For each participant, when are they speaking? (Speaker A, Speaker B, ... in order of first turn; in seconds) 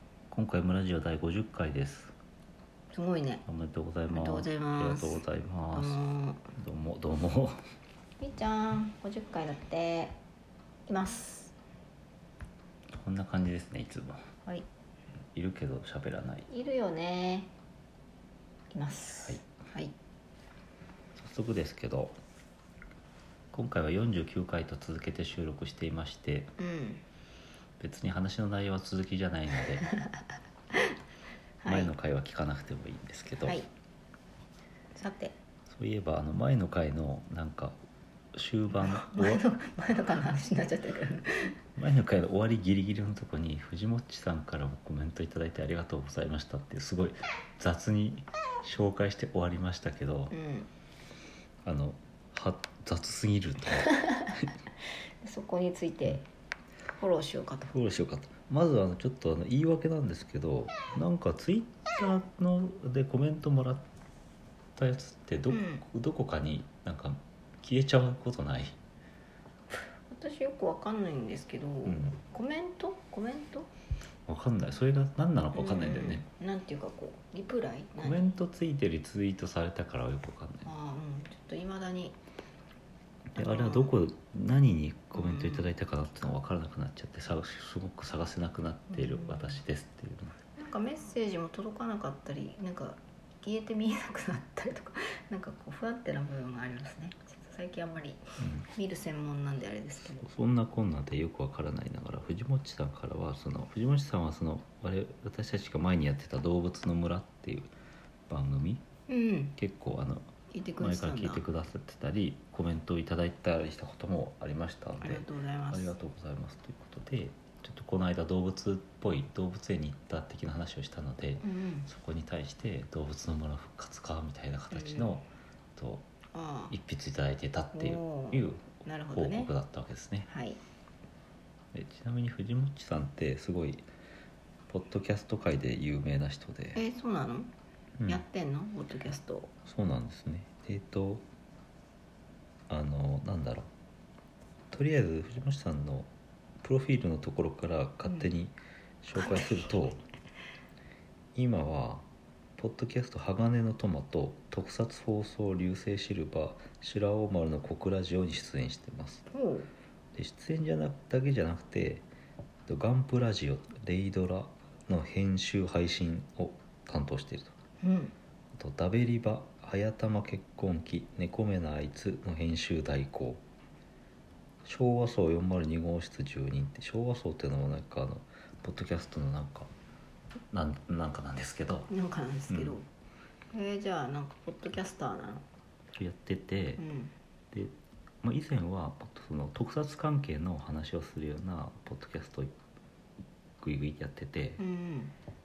Speaker A: 0.3-2.1, 3.5-6.0, 6.5-7.6, 12.9-14.3, 15.3-16.5, 21.2-22.2, 23.5-26.5, 27.8-29.9, 31.7-33.6, 35.7-37.8, 38.3-39.4, 41.8-50.3, 51.6-54.5, 57.7-63.9, 64.8-68.8, 71.8-72.2, 74.3-76.2, 78.0-80.7, 83.4-90.4, 98.4-98.7, 100.2-107.7, 108.3-108.8, 109.6-126.1, 126.7-130.3, 131.7-133.9, 134.7-136.8, 138.0-138.2, 139.7-141.2, 142.7-143.7, 144.7-146.1, 146.6-150.0, 151.3-152.1, 152.6-159.3, 160.1-162.1, 162.7-167.6, 168.6-173.4, 174.7-179.7, 180.5-181.9, 182.5-182.8, 185.9-186.8, 187.5-192.5, 193.6-194.6
Speaker B: 2.9-3.4, 4.1-6.5, 8.2-10.2, 10.9-11.5, 16.5-17.5, 18.7-19.9, 26.6-27.0, 31.6-31.9, 34.9-35.4, 38.8-41.6, 50.3-50.7, 55.2-56.2, 56.9-57.7, 65.5-65.8, 69.7-73.7, 75.5-78.2, 80.7-82.2, 83.3-83.9, 85.1-85.7, 88.9-89.6, 90.6-100.3, 109.1-109.5, 110.5-111.5, 115.0-116.0, 121.4-121.9, 124.7-125.1, 126.3-126.7, 127.7-129.5, 130.3-130.6, 136.8-137.5, 138.1-139.5, 149.2-149.7, 159.3-159.7, 167.8-168.2, 181.9-182.9, 183.5-185.4, 186.8-187.1, 194.6-195.1